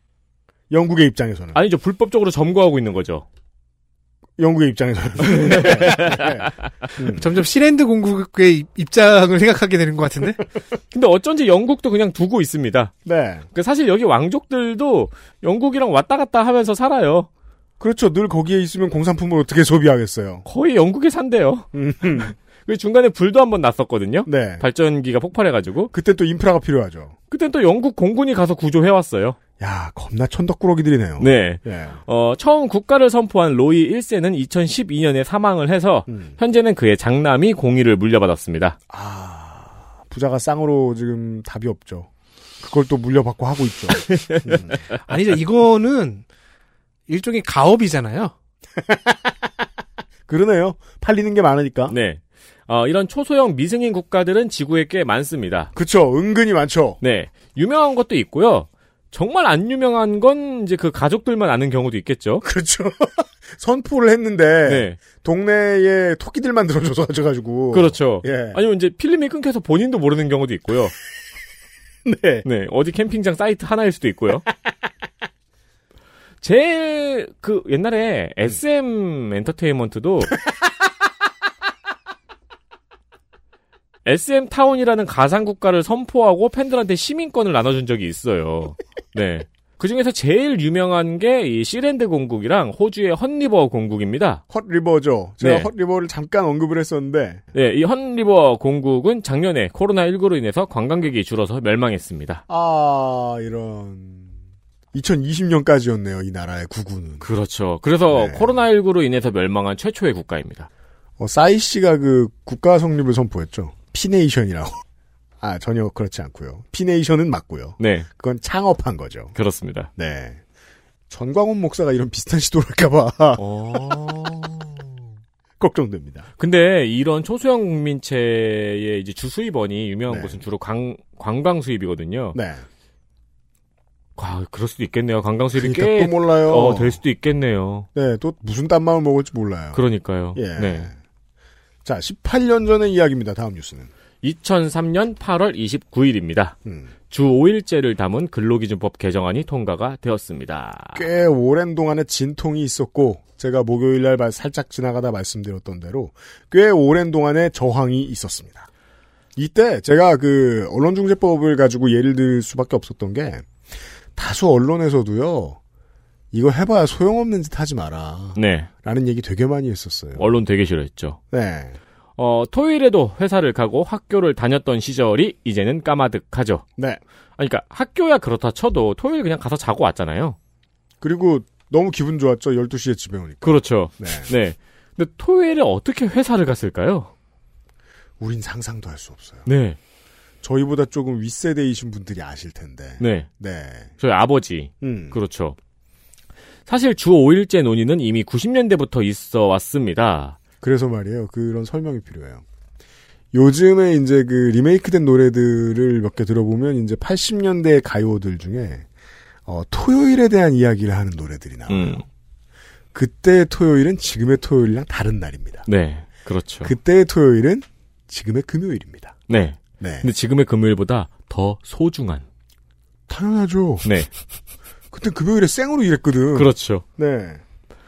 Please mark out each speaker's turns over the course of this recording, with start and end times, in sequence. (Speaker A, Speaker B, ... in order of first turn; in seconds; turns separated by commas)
Speaker A: 0.7-1.6, Speaker B: 1.5-3.2, Speaker A: 4.4-7.3, Speaker B: 5.3-6.2, Speaker C: 7.2-10.4, Speaker B: 10.9-12.9, Speaker A: 13.1-13.5, Speaker B: 13.5-17.3, Speaker A: 17.8-20.4, Speaker B: 20.4-21.7, Speaker A: 21.7-22.3, Speaker B: 22.2-25.9, Speaker A: 24.2-24.6, Speaker A: 25.9-27.2, Speaker B: 27.3-29.4, Speaker A: 29.6-32.0, Speaker B: 31.2-38.8, Speaker A: 36.1-36.4, Speaker A: 38.9-42.1, Speaker A: 42.6-44.8, Speaker B: 44.2-44.4, Speaker C: 45.1-46.2, Speaker C: 47.1-48.3, Speaker A: 48.8-49.5, Speaker A: 50.3-51.9, Speaker B: 51.9-55.7, Speaker A: 55.8-57.0, Speaker B: 57.0-62.5, Speaker A: 62.4-68.6, Speaker B: 64.7-65.0, Speaker B: 67.7-70.9, Speaker A: 72.0-72.5, Speaker B: 72.4-74.5, Speaker B: 76.4-80.4, Speaker B: 84.1-94.4, Speaker A: 94.5-97.4, Speaker B: 95.4-95.7, Speaker B: 97.5-102.4, Speaker A: 102.5-104.4, Speaker A: 104.9-107.2, Speaker B: 107.2-110.7, Speaker A: 108.1-108.5, Speaker A: 111.2-114.8, Speaker A: 115.4-119.4, Speaker B: 117.8-118.1, Speaker B: 119.4-119.9, Speaker A: 120.0-120.4, Speaker A: 121.1-123.4, Speaker B: 123.4-124.7, Speaker A: 125.6-126.3, Speaker B: 126.4-132.4, Speaker A: 130.1-130.4, Speaker A: 132.3-132.7, Speaker B: 134.2-137.9, Speaker A: 135.6-137.0, Speaker A: 137.9-139.8, Speaker B: 139.7-140.9, Speaker A: 140.3-141.0, Speaker A: 141.8-143.9, Speaker B: 144.2-146.6, Speaker A: 146.7-146.9, Speaker B: 147.1-151.1, Speaker A: 150.9-158.7, Speaker A: 159.4-163.5, Speaker A: 164.2-165.6, Speaker A: 166.3-170.3, Speaker B: 168.3-168.7, Speaker B: 170.2-171.2, Speaker A: 171.3-171.8, Speaker B: 172.2-176.6, Speaker B: 177.4-180.4, Speaker A: 181.0-184.3, Speaker B: 183.4-187.1, Speaker A: 188.2-189.5, Speaker B: 189.4-189.8, Speaker A: 190.4-193.9, Speaker B: 193.0-193.3, Speaker B: 194.0-195.6, Speaker A: 194.8-195.2, Speaker B: 196.7-200.4, Speaker A: 200.6-202.4, Speaker A: 203.3-208.8, Speaker A: 209.5-212.1, Speaker B: 211.7-212.0, Speaker A: 212.9-215.7, Speaker B: 215.7-216.7, Speaker A: 216.6-219.2, Speaker B: 219.3-222.2, Speaker A: 219.8-220.1, Speaker A: 223.1-223.9, Speaker B: 223.8-224.1, Speaker A: 224.9-227.4, Speaker B: 226.3-226.8